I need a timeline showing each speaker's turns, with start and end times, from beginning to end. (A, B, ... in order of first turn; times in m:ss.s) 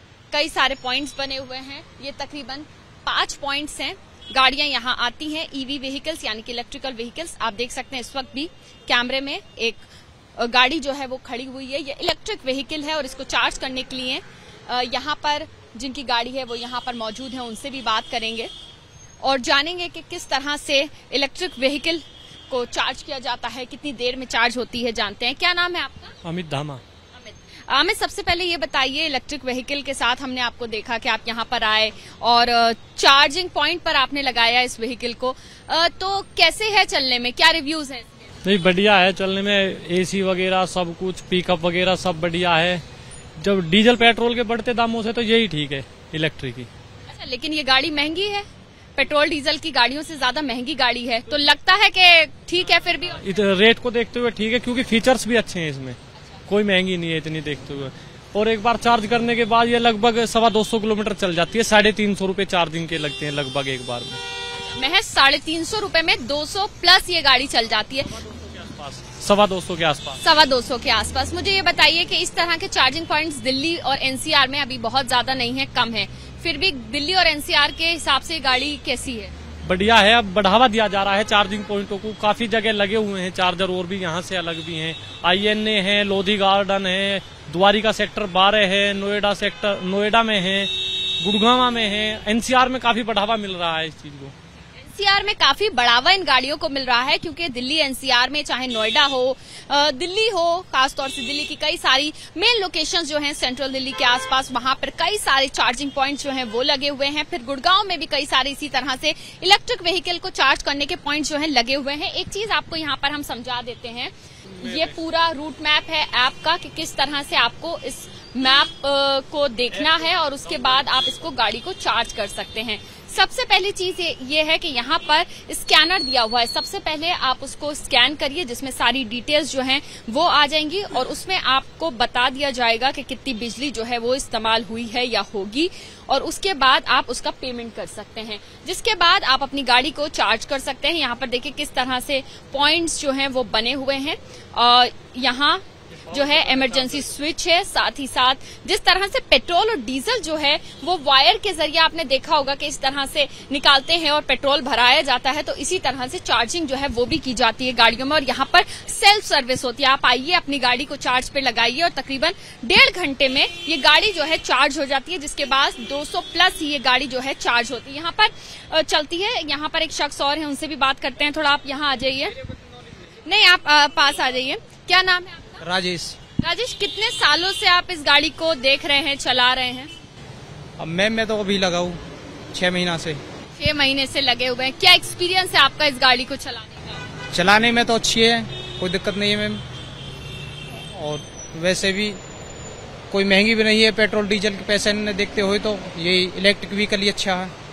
0:00.3-0:18.5 A
0:19.2-0:26.1 A
0:26.2-0:26.8 B
0:27.1-0:38.2 A
0:38.4-0:42.8 B
0:43.4-0:46.7 B
0:47.1-0:53.2 A
0:53.2-1:04.2 B
1:04.5-1:08.1 A
1:08.1-1:10.2 B
1:10.2-1:19.3 A
1:19.6-1:34.3 B
1:34.7-2:52.4 A
2:26.0-2:27.1 B
2:53.2-2:55.6 A
2:55.6-2:56.2 C
2:56.4-2:59.9 A
3:00.8-3:02.0 C
3:02.5-3:03.2 C
3:03.5-3:07.0 A
3:07.3-3:09.6 C
3:10.7-3:12.2 C
3:13.1-3:17.5 C